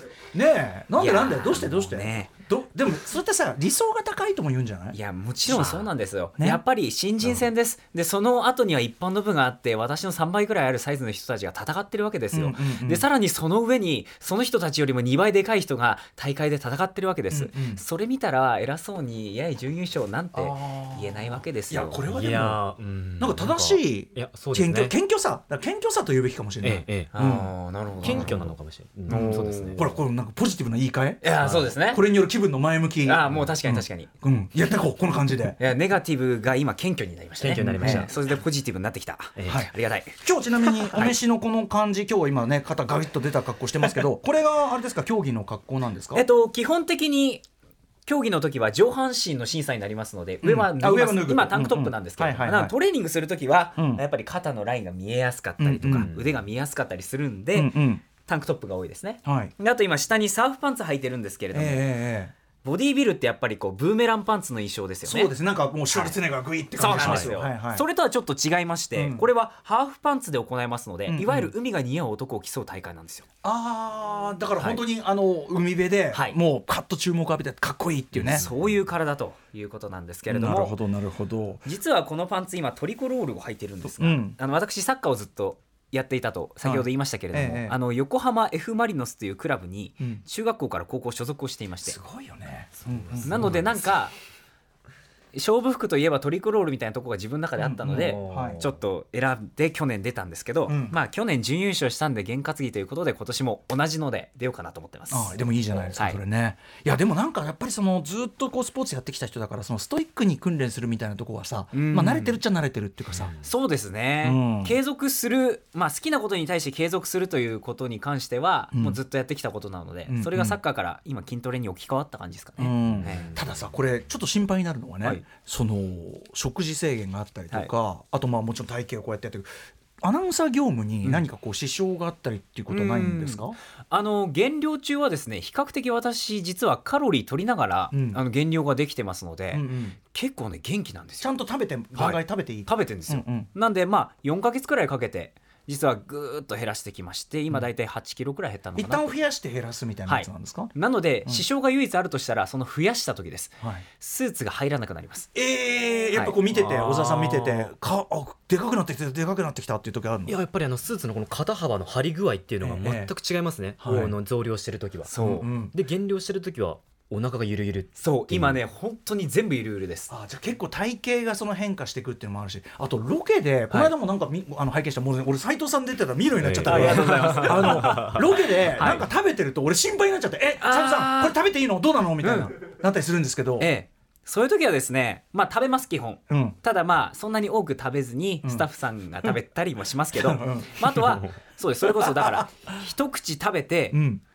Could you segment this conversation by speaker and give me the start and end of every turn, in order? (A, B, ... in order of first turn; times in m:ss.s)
0:00.3-0:05.8 A
0:01.0-0:02.3 B
0:04.9-0:22.0 B
0:12.3-0:13.0 A
0:17.3-0:17.8 A
0:20.3-0:27.5 A
0:22.1-0:24.9 C
0:26.6-0:27.1 C
0:27.1-0:28.5 B
0:28.0-0:30.0 C
0:29.1-0:29.8 B
0:29.1-0:35.6 A
0:31.2-0:32.0 B
0:31.4-0:31.7 C
0:33.0-0:34.1 B
0:33.3-0:33.5 C
0:35.6-0:40.2 B
0:37.4-0:38.1 C
0:37.8-0:38.1 A
0:39.4-0:39.7 C
0:39.4-0:46.2 A
0:40.9-0:41.1 B
0:46.1-0:47.4 B
0:48.0-1:01.8 B
0:50.4-0:52.7 A
0:53.8-0:54.0 A
0:55.6-0:56.1 A
0:57.5-0:58.0 A
0:59.2-0:59.5 A
1:01.5-1:02.3 A
1:02.6-1:05.3 B
1:05.0-1:07.8 A
1:05.9-1:06.2 B
1:06.8-1:13.2 B
1:06.9-1:07.3 C
1:09.0-1:09.2 A
1:11.1-1:11.5 A
1:13.4-1:18.5 A
1:18.2-1:20.7 B
1:20.3-1:21.6 A
1:21.6-1:32.0 B
1:23.8-1:24.4 A
1:26.6-1:27.8 A
1:31.8-1:33.5 A
1:33.2-1:34.1 B
1:35.3-1:45.3 B
1:37.6-1:38.6 A
1:40.7-1:40.9 A
1:45.1-1:53.4 A
1:51.7-1:52.4 B
1:53.4-2:03.3 B
1:54.2-1:54.8 A
1:58.7-1:59.0 A
2:00.1-2:00.6 A
2:02.6-2:09.5 A
2:10.0-2:13.6 A
2:12.7-2:21.3 B
2:17.9-2:18.2 A
2:19.5-2:20.0 A
2:21.2-2:23.5 A
2:21.9-2:29.1 B
2:28.8-2:30.7 A
2:30.1-2:35.3 B
2:35.3-2:40.3 A
2:36.1-2:37.5 B
2:40.2-2:48.6 C
2:42.6-2:43.1 A
2:43.8-2:44.1 A
2:45.1-2:45.4 B
2:45.2-2:45.7 A
2:48.0-2:50.1 B
2:50.1-3:03.7 A
2:56.4-2:58.2 C
2:56.6-2:58.2 B
2:58.8-2:59.0 B
3:00.6-3:01.3 B
3:02.2-3:02.5 B
3:03.6-3:14.0 B
3:06.3-3:06.6 A
3:10.1-3:11.2 A
3:11.8-3:12.7 A
3:13.9-3:14.2 A